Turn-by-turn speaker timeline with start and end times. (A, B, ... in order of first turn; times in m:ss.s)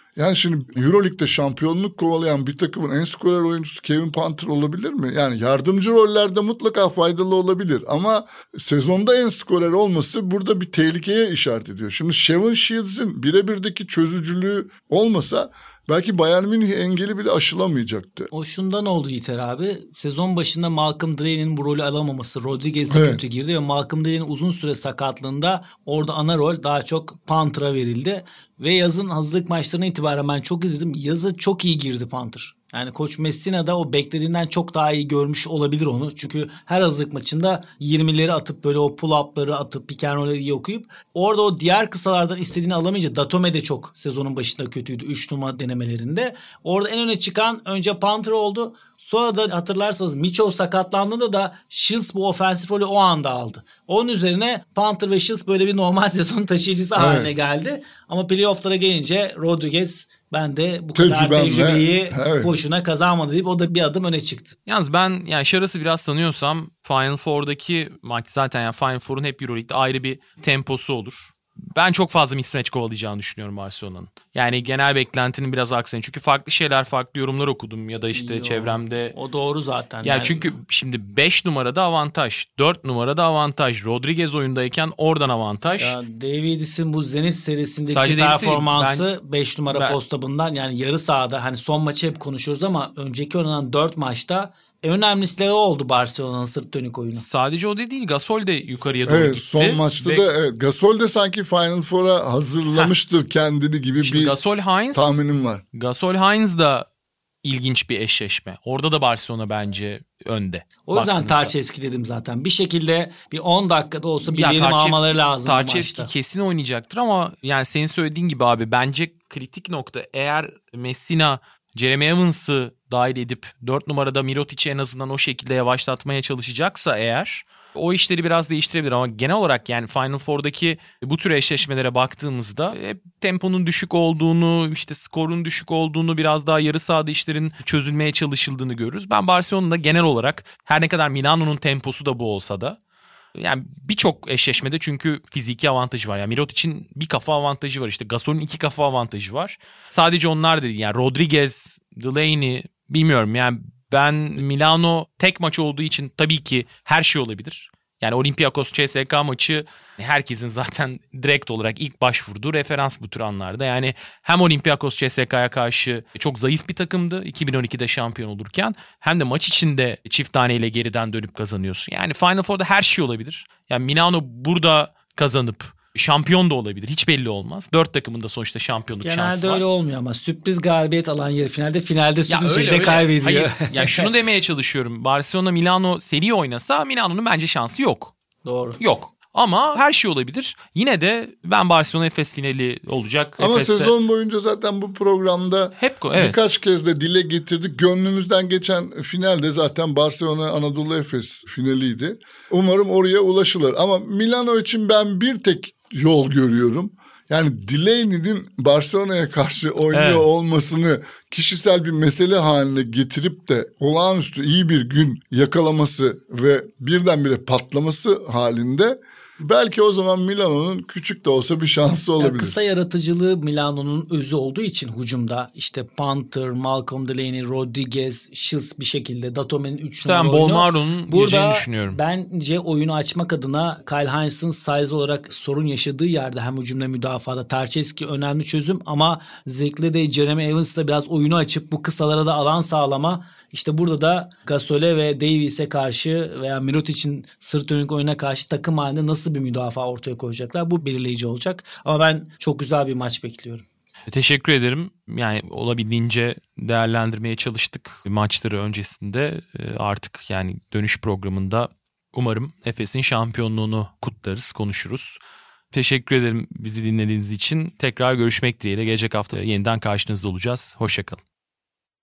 0:00.2-0:18.3 A
0:18.3-1:04.5 B
0:22.9-0:23.2 A
0:57.0-0:57.3 A
1:00.9-1:02.5 A
1:04.7-1:19.1 C
1:18.1-1:20.5 B
1:20.0-1:26.0 C
1:25.8-1:37.2 B
1:27.9-1:29.1 C
1:29.7-1:30.0 C
1:37.2-1:40.3 C
1:39.0-1:44.3 A
1:44.0-1:45.2 C
1:44.9-1:45.6 A
1:45.7-1:46.9 C
1:47.4-1:51.5 C
1:50.8-1:56.1 B
1:54.2-2:22.8 C
2:23.3-2:59.6 C
2:59.0-3:04.1 B
3:02.3-3:08.1 C
3:08.4-3:08.8 B
3:08.8-3:13.9 C
3:13.4-3:42.6 A
3:15.8-3:16.4 C
3:29.9-3:30.2 C
3:42.2-4:13.6 B
3:50.0-3:52.0 C
4:14.1-4:25.2 C
4:25.7-4:31.2 C